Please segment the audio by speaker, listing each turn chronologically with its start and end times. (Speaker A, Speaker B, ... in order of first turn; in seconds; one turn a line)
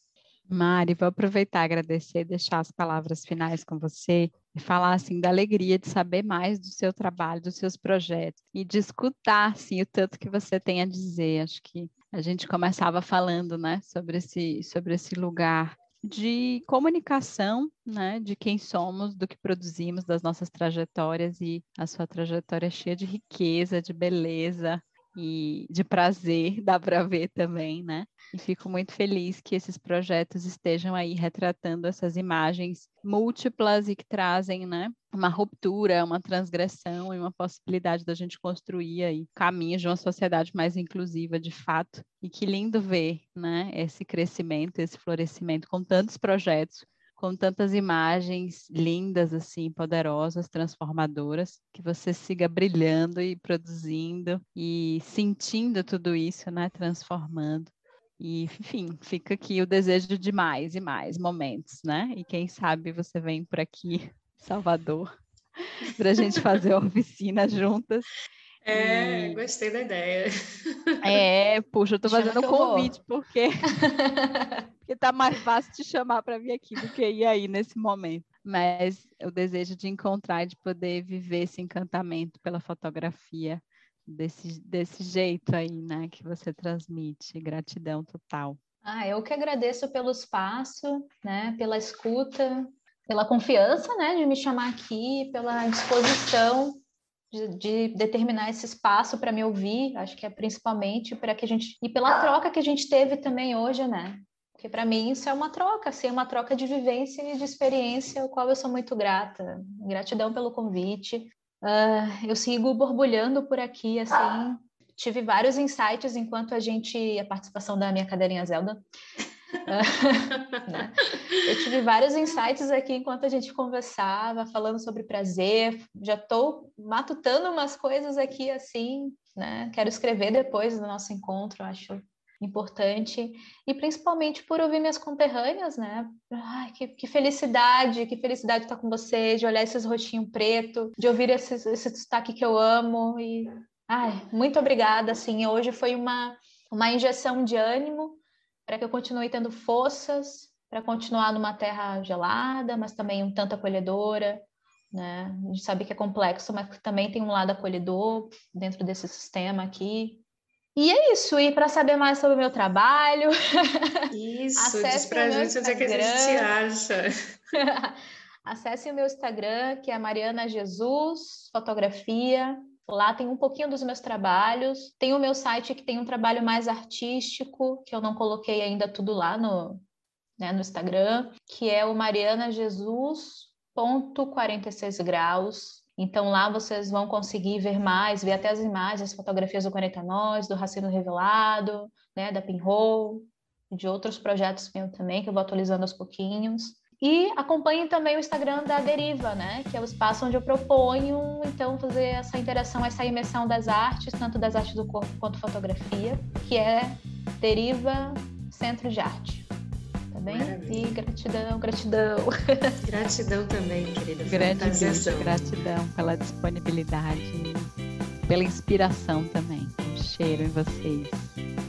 Speaker A: 0.5-65.1
Speaker A: 65.6-68.1
Speaker B: 68.7-71.2
Speaker A: 68.7-69.4
Speaker A: 71.0-73.8
Speaker C: 72.0-73.0
Speaker C: 73.7-74.5
Speaker A: 74.8-88.6
Speaker C: 88.8-96.8
Speaker C: 97.3-118.8
Speaker C: 119.7-160.2
Speaker C: 160.8-164.0
Speaker B: 164.1-167.1
Speaker C: 164.6-166.5
Speaker C: 167.5-179.8
Speaker C: 180.4-209.5
Speaker C: 210.1-212.8
Speaker B: 210.2-211.0
Speaker B: 212.8-215.6
Speaker A: 214.3-217.7
Speaker A: 218.2-221.4